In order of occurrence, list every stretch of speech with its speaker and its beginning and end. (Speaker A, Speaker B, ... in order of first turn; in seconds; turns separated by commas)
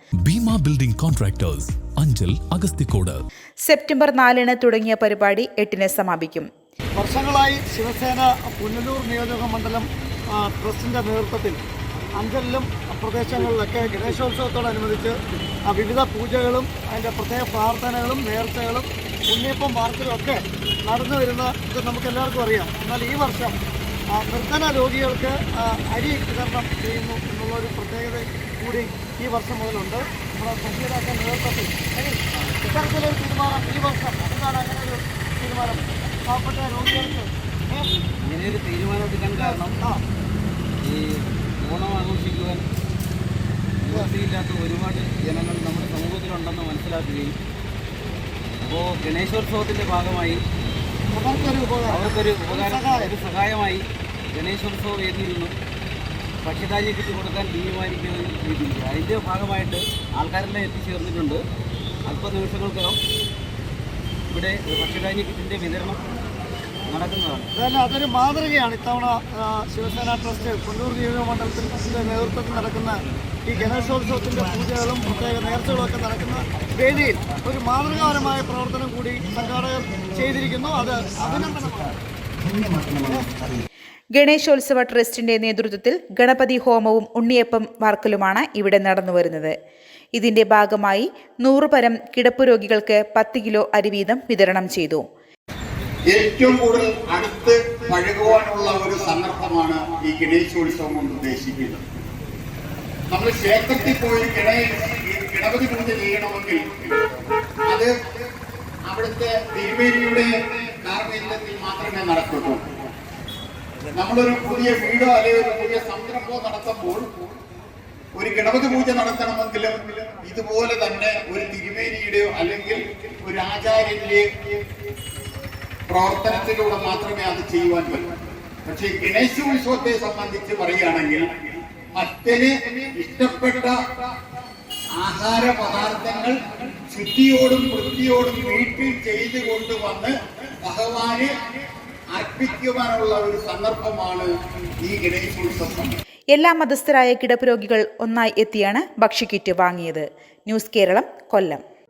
Speaker A: 0.2-3.2, Speaker B: 3.6-6.5, Speaker C: 7.0-11.6, Speaker C: 12.2-23.5, Speaker C: 24.1-37.9, Speaker D: 38.2-39.7, Speaker C: 39.3-40.0, Speaker D: 40.8-42.6, Speaker D: 43.8-47.3, Speaker D: 48.6-50.4, Speaker C: 51.1-53.1, Speaker D: 51.4-55.5, Speaker D: 56.4-61.4, Speaker D: 62.1-63.0, Speaker D: 64.3-66.0, Speaker D: 66.9-67.5, Speaker C: 67.5-81.9, Speaker C: 82.9-83.3, Speaker B: 84.1-89.5, Speaker B: 90.1-95.0, Speaker E: 96.1-101.8, Speaker E: 103.1-107.0, Speaker E: 108.8-112.6, Speaker E: 113.9-117.1, Speaker E: 118.1-124.6, Speaker E: 125.9-128.1, Speaker E: 128.6-133.8, Speaker E: 135.0-141.4, Speaker E: 142.1-144.3, Speaker E: 144.8-146.0, Speaker B: 146.3-151.6